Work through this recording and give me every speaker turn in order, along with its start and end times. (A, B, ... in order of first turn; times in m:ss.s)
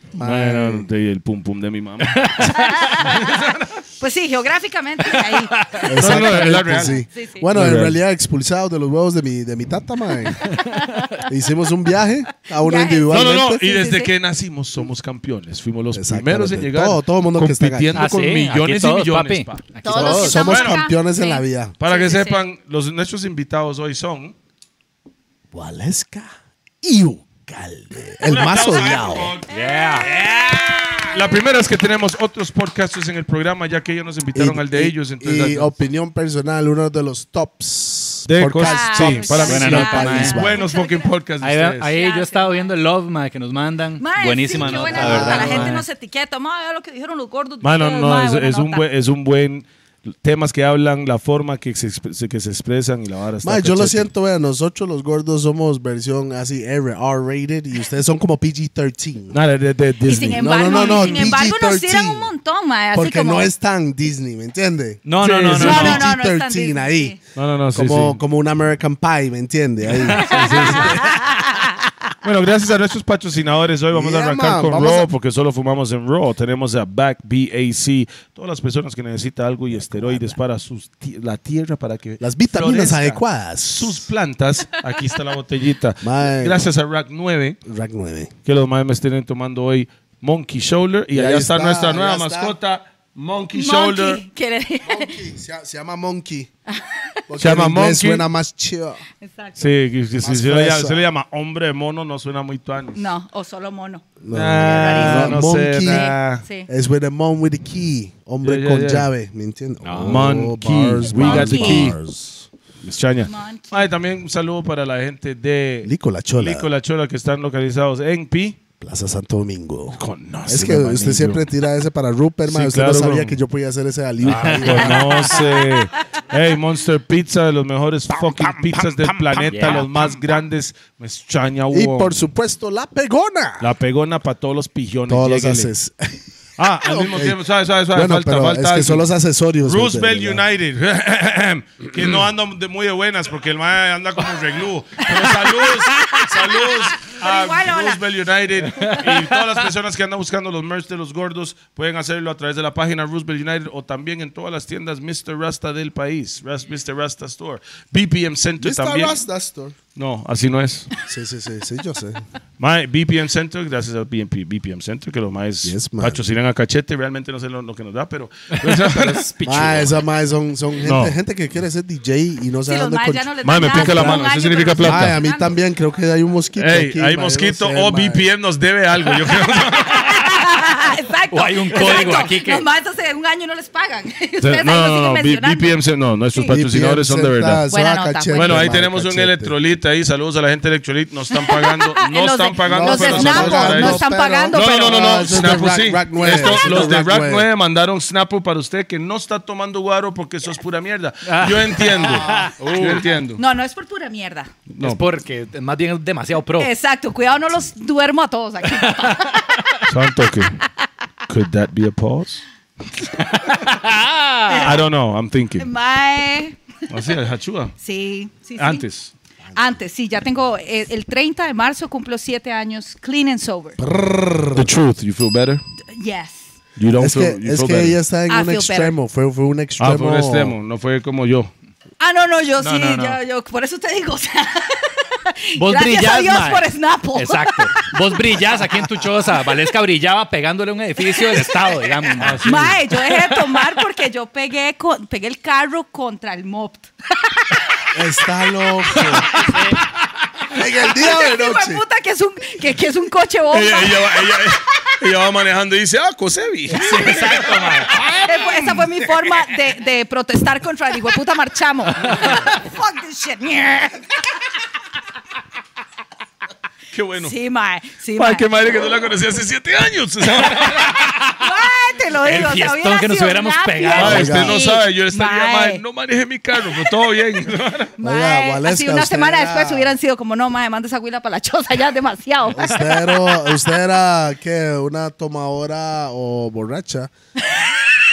0:00.2-0:00.9 A
0:00.2-0:03.8 B
0:02.0-0:02.9 C
0:02.5-0:03.4 D
0:04.0-0:07.4 D
0:05.8-0:10.6 A
0:05.9-0:07.0 B
0:07.5-0:08.0 B
0:10.5-0:11.1 D
0:11.2-0:13.6 A
0:12.5-0:14.1 D
0:13.1-0:19.7 B
0:15.9-0:18.1 A
0:18.0-0:20.5 C
0:19.8-0:22.4 D
0:19.9-0:21.8 A
0:20.3-0:20.8 B
0:21.8-0:24.4 B
0:25.5-0:29.4 A
0:28.2-0:29.5 B
0:29.5-0:30.1 C
0:29.5-0:31.4 D
0:30.1-0:35.7 B
0:30.2-0:31.1 A
0:34.3-0:40.6 A
0:38.3-0:41.9 B
0:38.6-0:41.1 D
0:39.5-0:40.4 C
0:41.4-0:45.8 C
0:41.9-0:42.7 D
0:44.0-0:48.8 D
0:44.6-0:45.8 A
0:44.9-0:45.3 B
0:47.6-0:54.1 B
0:53.4-0:59.4 A
0:59.3-1:01.4 B
1:00.1-1:02.3 A
1:00.1-1:03.5 D
1:02.9-1:07.2 A
1:05.0-1:06.0 C
1:05.2-1:06.0 B
1:05.6-1:07.2 D
1:07.4-1:08.2 B
1:07.7-1:11.3 A
1:10.1-1:11.9 D
1:10.3-1:10.5 C
1:12.2-1:27.6 B
1:13.9-1:15.1 A
1:19.7-1:20.4 A
1:22.2-1:24.1 A
1:26.0-1:26.6 A
1:27.6-1:28.3 A
1:28.4-1:34.2 B
1:31.1-1:32.6 A
1:33.5-1:35.2 D
1:34.8-1:36.5 A
1:36.7-1:37.2 D
1:37.3-1:39.0 A
1:37.4-1:38.2 B
1:39.2-1:39.6 D
1:39.6-1:43.0 B
1:40.2-1:41.0 A
1:43.0-1:44.1 D
1:44.2-1:46.2 A
1:44.3-1:46.4 B
1:44.7-1:46.7 D
1:46.7-1:52.5 A
1:48.4-1:49.1 B
1:49.8-1:50.3 C
1:49.9-1:52.0 B
1:51.0-1:51.9 D
1:52.8-1:58.6 B
1:53.2-1:53.8 D
1:55.8-1:56.7 A
1:58.8-2:05.6 A
2:00.0-2:01.4 B
2:02.5-2:03.4 B
2:04.2-2:12.3 B
2:04.3-2:05.3 C
2:04.9-2:05.8 D
2:08.1-2:10.1 A
2:09.5-2:09.9 C
2:11.7-2:13.7 A
2:13.6-2:15.7 B
2:15.1-2:16.2 A
2:16.6-2:19.0 B
2:16.8-2:20.4 A
2:19.6-2:39.2 B
2:25.2-2:28.0 D
2:28.7-2:29.4 C
2:38.6-2:39.8 A
2:40.0-2:40.9 B
2:41.1-2:42.2 A
2:42.6-2:49.3 B
2:45.6-2:46.2 A
2:48.5-2:50.0 C
2:49.4-2:58.3 A
2:50.8-2:51.2 B
2:52.7-2:55.5 D
2:53.4-2:55.2 B
2:56.6-3:00.6 B
3:00.0-3:05.8 D
3:01.3-3:02.6 C
3:04.4-3:07.6 B
3:06.5-3:09.6 A
3:07.7-3:08.7 D
3:08.3-3:23.4 B
3:11.3-3:15.6 D
3:12.6-3:17.5 A
3:21.2-3:23.2 C
3:22.0-3:22.5 A
3:23.4-3:24.5 D
3:24.7-3:25.0 B
3:24.8-3:26.7 C
3:26.6-3:29.6 D
3:29.0-3:29.4 C
3:29.8-3:30.6 B
3:31.3-3:32.4 B
3:33.3-3:34.8 C
3:34.5-3:34.8 D
3:34.6-3:35.7 B
3:35.6-3:36.6 D
3:36.9-3:37.7 B
3:37.8-3:38.8 D
3:38.6-3:39.1 B
3:39.6-3:43.8 D
3:43.8-3:44.7 A
3:44.6-3:45.6 B
3:45.9-3:46.5 D
3:46.8-3:48.0 B
3:46.9-3:50.6 A
3:48.3-3:49.0 D
3:49.8-3:51.5 B
3:52.0-3:58.3 D
3:52.6-3:53.2 C
3:55.6-4:03.6 C
4:01.0-4:01.7 D
4:02.2-4:02.8 B
4:02.2-4:07.8 D
4:07.9-4:09.4 A
4:08.9-4:09.6 D
4:09.3-4:09.8 C
4:10.5-4:11.8 A
4:10.9-4:14.5 D
4:13.5-4:18.9 B
4:16.7-4:18.0 C
4:16.8-4:24.4 D
4:26.9-4:27.3 B
4:27.2-4:28.4 D
4:28.2-4:31.2 B
4:31.3-4:35.8 D
4:32.2-4:34.4 C
4:33.9-4:34.6 A
4:33.9-4:37.9 B
4:38.0-4:43.0 D
4:38.0-4:39.9 A
4:42.5-4:47.1 A
4:47.5-4:47.8 D